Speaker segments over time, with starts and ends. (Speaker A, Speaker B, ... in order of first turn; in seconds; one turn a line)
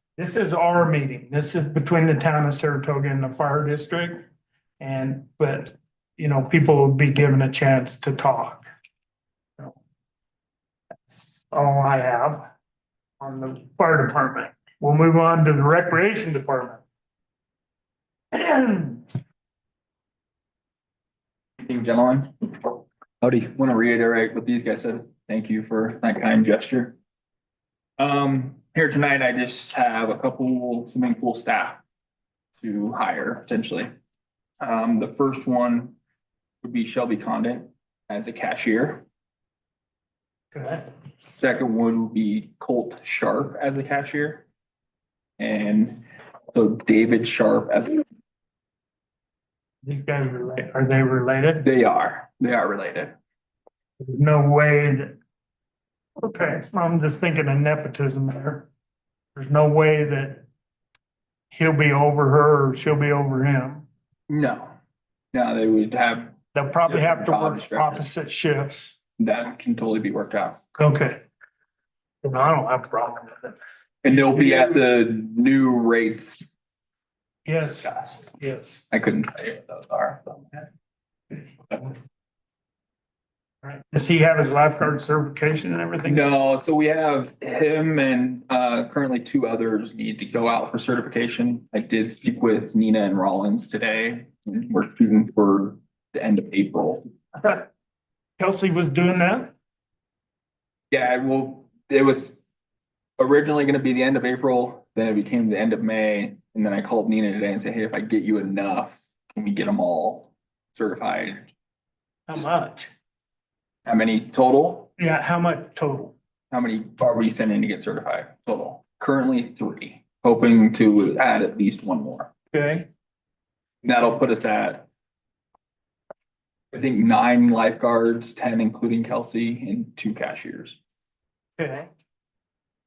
Speaker A: 0.2-4.2
Speaker A: 4.8-8.6
Speaker A: 11.0-12.4
Speaker A: 13.2-16.8
Speaker A: 18.3-19.1
Speaker B: 21.6-27.0
Speaker B: 28.0-31.8
Speaker B: 32.5-33.9
Speaker B: 34.6-36.0
Speaker B: 36.6-39.0
Speaker A: 40.5-40.9
Speaker B: 41.2-44.5
Speaker B: 45.4-46.0
Speaker B: 46.5-48.0
Speaker A: 49.8-51.6
Speaker B: 51.6-53.1
Speaker A: 54.0-55.2
Speaker A: 56.2-58.7
Speaker A: 59.4-60.5
Speaker A: 61.5-63.9
Speaker B: 64.3-64.7
Speaker B: 65.3-68.1
Speaker A: 66.5-69.0
Speaker B: 69.2-70.6
Speaker A: 70.8-71.2
Speaker A: 72.2-73.6
Speaker B: 74.0-76.5
Speaker A: 74.1-74.8
Speaker A: 77.5-78.8
Speaker B: 77.8-78.2
Speaker B: 78.9-80.7
Speaker B: 81.7-82.0
Speaker A: 83.6-86.3
Speaker B: 86.0-97.0
Speaker A: 98.4-99.5
Speaker B: 100.9-102.4
Speaker B: 103.2-111.5
Speaker A: 112.3-112.9
Speaker B: 113.9-114.9
Speaker A: 115.0-116.2
Speaker B: 116.5-122.3
Speaker A: 122.5-122.8
Speaker B: 123.8-124.9
Speaker B: 126.7-130.8
Speaker A: 131.6-131.9